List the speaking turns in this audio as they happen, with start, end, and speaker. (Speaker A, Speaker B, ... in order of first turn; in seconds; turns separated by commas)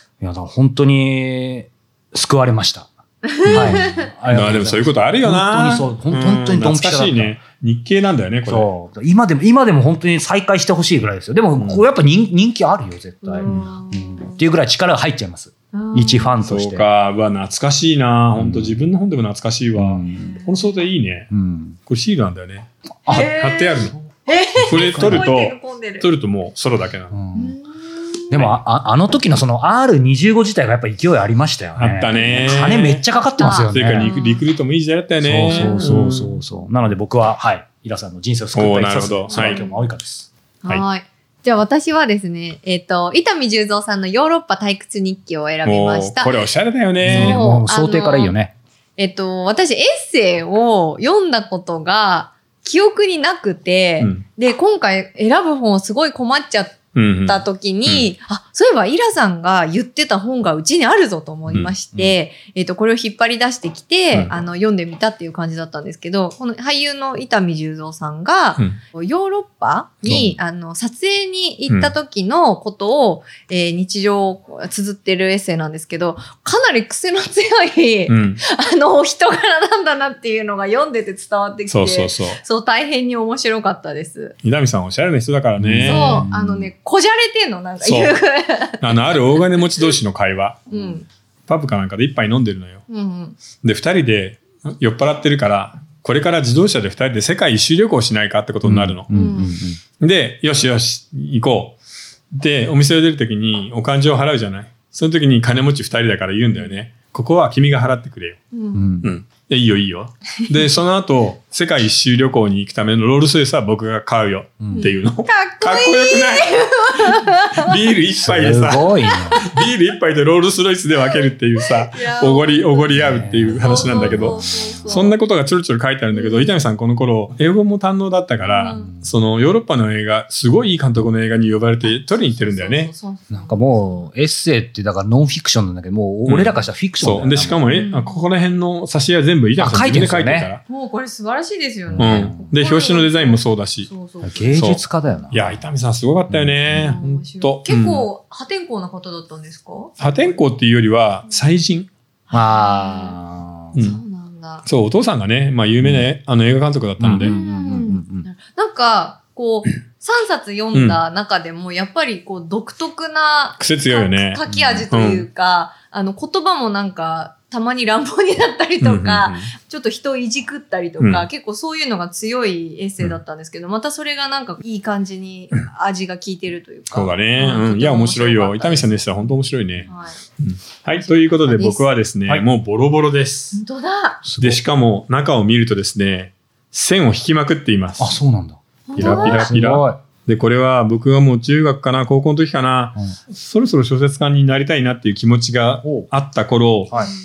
Speaker A: 0.2-2.9, Speaker B: 3.2-4.1, Speaker A: 3.4-7.4, Speaker C: 3.4-8.7, Speaker A: 8.4-16.9, Speaker C: 11.6-11.8, Speaker B: 13.2-14.3, Speaker C: 13.4-13.7, Speaker B: 15.7-16.4, Speaker C: 16.4-21.3, Speaker A: 18.3-18.8, Speaker A: 19.7-20.4, Speaker B: 20.2-20.4, Speaker A: 21.3-21.8, Speaker C: 21.9-23.9, Speaker A: 23.1-25.3, Speaker B: 23.1-26.1, Speaker C: 24.7-27.1, Speaker A: 27.1-27.5, Speaker B: 27.3-28.5, Speaker A: 28.3-34.1, Speaker C: 31.8-36.4, Speaker B: 33.4-34.4, Speaker A: 35.2-40.3, Speaker B: 35.5-36.0, Speaker C: 38.5-39.6, Speaker B: 39.3-39.8, Speaker B: 40.6-46.4, Speaker C: 45.6-47.4, Speaker A: 47.0-48.5, Speaker B: 47.1-48.4, Speaker B: 49.0-84.3, Speaker C: 56.9-58.1, Speaker C: 70.0-70.4, Speaker C: 71.7-71.9, Speaker C: 78.1-78.4, Speaker C: 81.7-82.4, Speaker C: 84.4-86.3, Speaker A: 85.6-86.7, Speaker B: 85.8-89.9, Speaker C: 87.8-88.2, Speaker C: 88.8-90.6, Speaker A: 90.7-91.0, Speaker B: 90.7-91.1, Speaker C: 91.5-92.8, Speaker B: 92.9-93.4, Speaker C: 93.6-99.2, Speaker A: 98.6-99.8, Speaker B: 99.1-99.5, Speaker C: 100.0-101.8, Speaker C: 102.3-108.4, Speaker B: 106.5-106.8, Speaker B: 108.5-108.8, Speaker A: 108.7-109.1, Speaker C: 109.0-132.9, Speaker A: 114.6-114.9, Speaker B: 114.7-117.8, Speaker A: 118.2-119.4, Speaker B: 119.3-119.6, Speaker B: 121.0-125.2, Speaker A: 122.9-124.9, Speaker B: 126.1-126.6, Speaker B: 128.4-128.9, Speaker A: 128.8-129.1, Speaker B: 131.8-134.1, Speaker A: 133.3-137.7, Speaker C: 136.2-140.6, Speaker B: 137.7-138.2, Speaker A: 139.6-140.5, Speaker B: 140.7-145.2, Speaker A: 141.9-142.5, Speaker C: 142.0-143.9, Speaker A: 144.2-145.6, Speaker C: 144.5-148.1, Speaker A: 146.3-146.9, Speaker B: 146.7-150.4, Speaker C: 150.0-151.9, Speaker B: 152.3-153.2, Speaker A: 152.3-153.8, Speaker C: 153.7-154.0, Speaker B: 153.8-154.6, Speaker C: 154.6-157.3, Speaker A: 155.8-156.1, Speaker A: 157.0-158.2, Speaker B: 157.2-179.0, Speaker C: 160.7-161.0, Speaker C: 163.6-165.3, Speaker A: 164.5-164.8, Speaker C: 168.8-169.5, Speaker C: 171.0-171.3, Speaker C: 176.9-179.9, Speaker B: 179.8-180.2, Speaker C: 180.4-183.6, Speaker B: 181.0-181.9, Speaker B: 183.5-184.2, Speaker A: 184.2-184.6, Speaker C: 184.4-188.1, Speaker A: 188.0-190.0, Speaker B: 188.9-189.5, Speaker C: 188.9-196.9, Speaker A: 195.8-196.1